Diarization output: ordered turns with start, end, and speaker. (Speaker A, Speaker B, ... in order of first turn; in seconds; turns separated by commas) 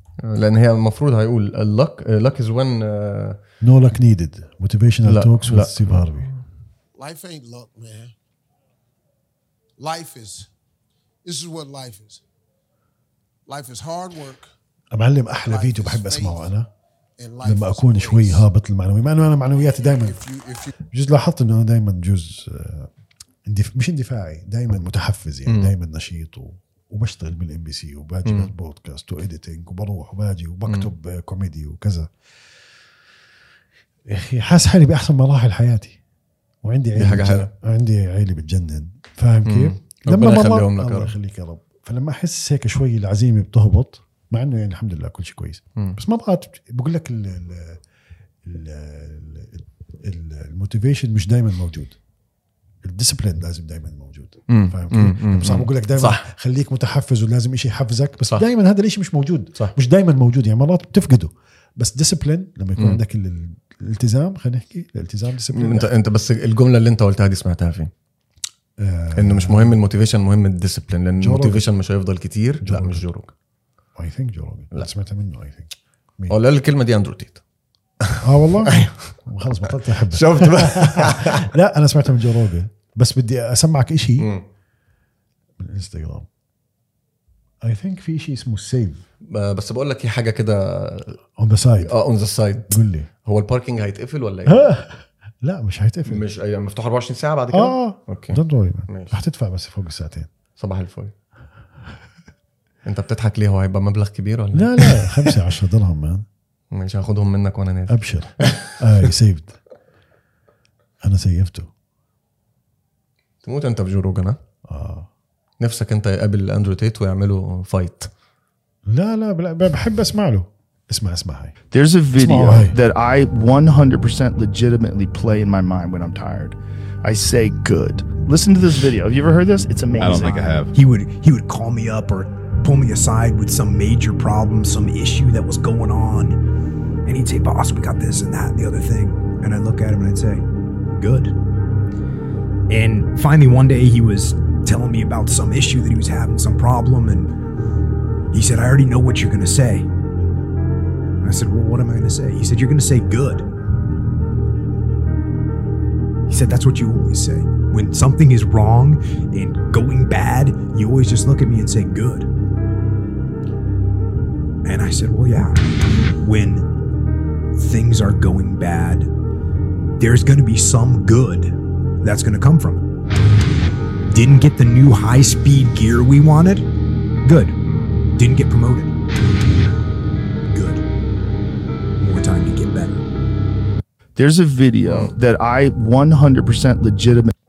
Speaker A: 0.2-3.4, Speaker B: 3.6-6.3, Speaker A: 5.0-6.3, Speaker C: 6.9-8.1, Speaker C: 9.8-10.5, Speaker C: 11.2-12.2, Speaker C: 13.4-14.5, Speaker B: 14.9-16.7, Speaker C: 15.5-16.5, Speaker C: 17.2-18.4, Speaker B: 17.4-20.2, Speaker C: 20.0-20.7, Speaker B: 20.9-22.9, Speaker B: 23.4-32.1, Speaker A: 25.4-25.7, Speaker A: 28.2-28.5, Speaker B: 34.0-36.0, Speaker B: 36.6-47.8, Speaker A: 37.0-37.5, Speaker A: 39.5-41.1, Speaker B: 48.4-52.0, Speaker B: 52.8-65.9, Speaker A: 54.5-56.2, Speaker A: 65.5-67.9, Speaker B: 68.8-69.8, Speaker A: 69.1-73.3, Speaker B: 71.2-71.7, Speaker B: 72.6-73.1, Speaker B: 74.0-76.4, Speaker A: 76.3-77.4, Speaker A: 78.0-79.2, Speaker B: 78.2-84.3, Speaker A: 79.9-81.5, Speaker A: 84.2-84.4, Speaker B: 85.6-86.3, Speaker B: 87.6-89.0, Speaker A: 89.3-91.2, Speaker B: 91.4-92.0, Speaker A: 91.8-94.7, Speaker B: 92.6-93.1, Speaker B: 94.5-96.2, Speaker A: 96.1-99.2, Speaker B: 97.5-100.3, Speaker A: 100.6-101.1, Speaker A: 102.8-105.3, Speaker B: 104.5-106.2, Speaker A: 106.7-109.1, Speaker B: 107.9-109.6, Speaker B: 111.0-111.7, Speaker A: 113.4-114.4, Speaker B: 114.7-115.1, Speaker A: 115.6-118.1, Speaker B: 118.8-121.5, Speaker D: 121.7-130.7, Speaker B: 122.1-122.8, Speaker E: 130.7-136.4, Speaker E: 137.1-141.3, Speaker E: 142.7-147.3, Speaker E: 148.3-149.9, Speaker E: 151.2-153.5, Speaker E: 156.3-162.3, Speaker E: 164.6-165.6, Speaker E: 166.2-166.7, Speaker E: 167.5-169.1, Speaker E: 170.0-172.8, Speaker E: 174.1-176.7, Speaker E: 177.2-177.6, Speaker E: 178.1-178.9, Speaker E: 180.5-180.8, Speaker E: 182.0-183.0, Speaker D: 184.2-187.3, Speaker A: 184.8-185.1